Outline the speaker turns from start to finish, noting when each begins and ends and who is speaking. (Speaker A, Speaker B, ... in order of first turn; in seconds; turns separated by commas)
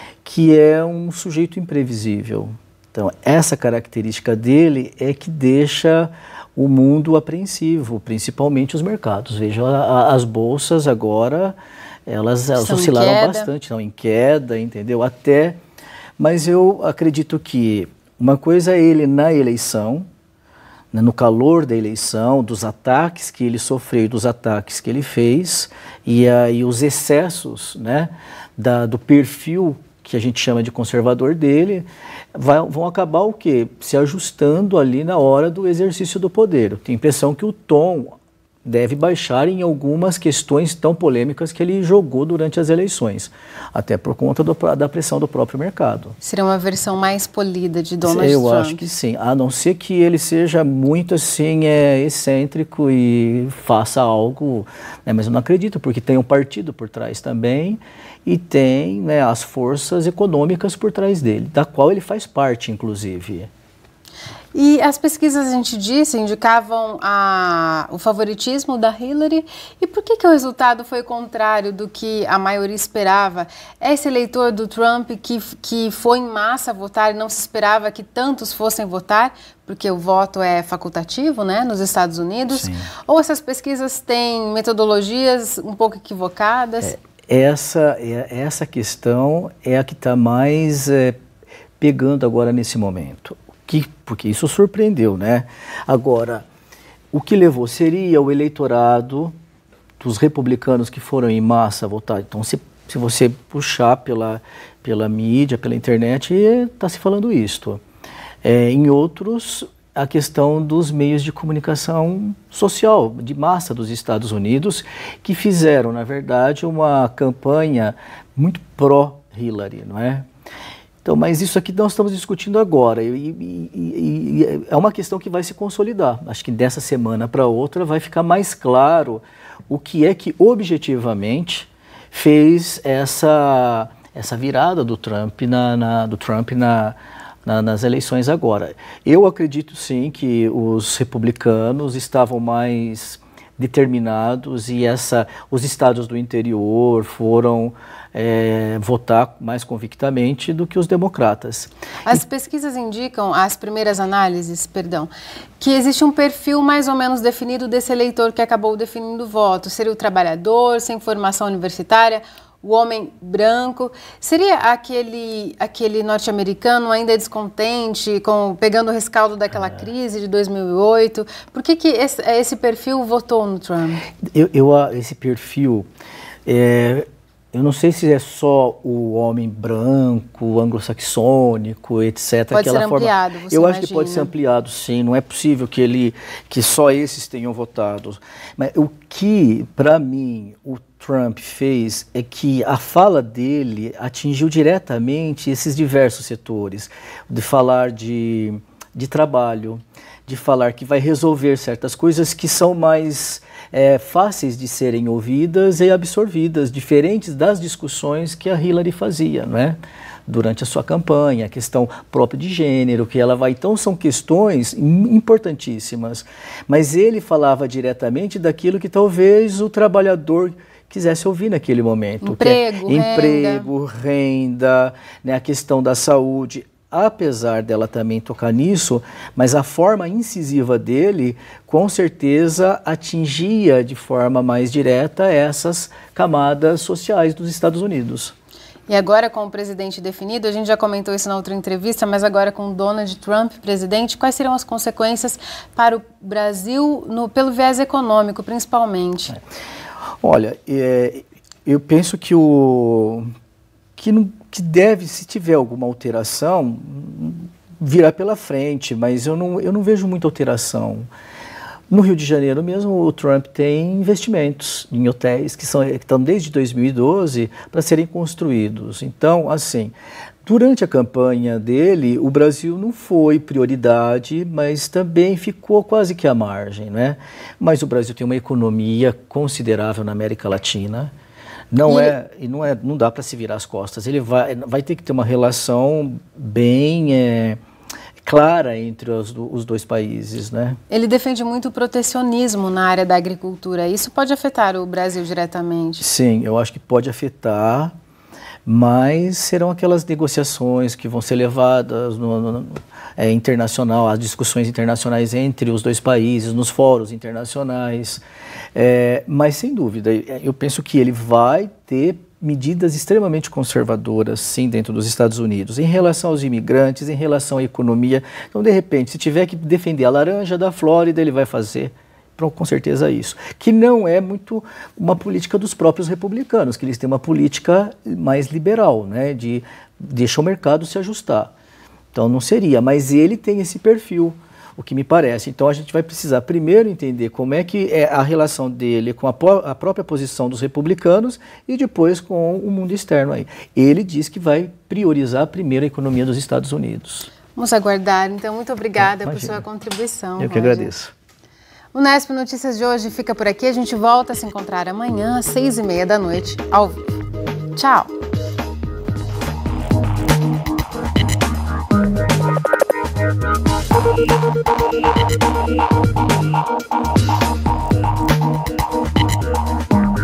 Speaker A: 0.2-15.6, Speaker B: 12.6-13.5, Speaker A: 16.2-20.1, Speaker A: 20.9-46.2, Speaker B: 46.2-48.8, Speaker A: 48.0-63.5, Speaker B: 64.5-86.9, Speaker A: 82.5-82.9, Speaker A: 86.8-91.2, Speaker A: 91.8-96.5, Speaker A: 97.1-99.3, Speaker A: 100.0-107.8, Speaker A: 108.4-120.3, Speaker A: 121.0-152.2, Speaker B: 152.1-174.1, Speaker A: 174.2-175.9, Speaker A: 176.5-238.3, Speaker B: 182.5-184.3, Speaker B: 222.2-223.7, Speaker B: 238.9-249.4, Speaker A: 250.2-253.3, Speaker A: 254.0-261.1, Speaker A: 261.9-281.1, Speaker A: 281.7-287.6, Speaker B: 281.9-282.1, Speaker A: 288.2-290.8, Speaker B: 290.9-296.0, Speaker A: 296.0-297.9, Speaker A: 298.7-308.2, Speaker A: 308.8-331.5, Speaker A: 332.1-347.3, Speaker B: 347.6-350.9, Speaker A: 349.0-349.6, Speaker A: 350.4-351.1, Speaker B: 351.9-357.0, Speaker B: 357.8-358.1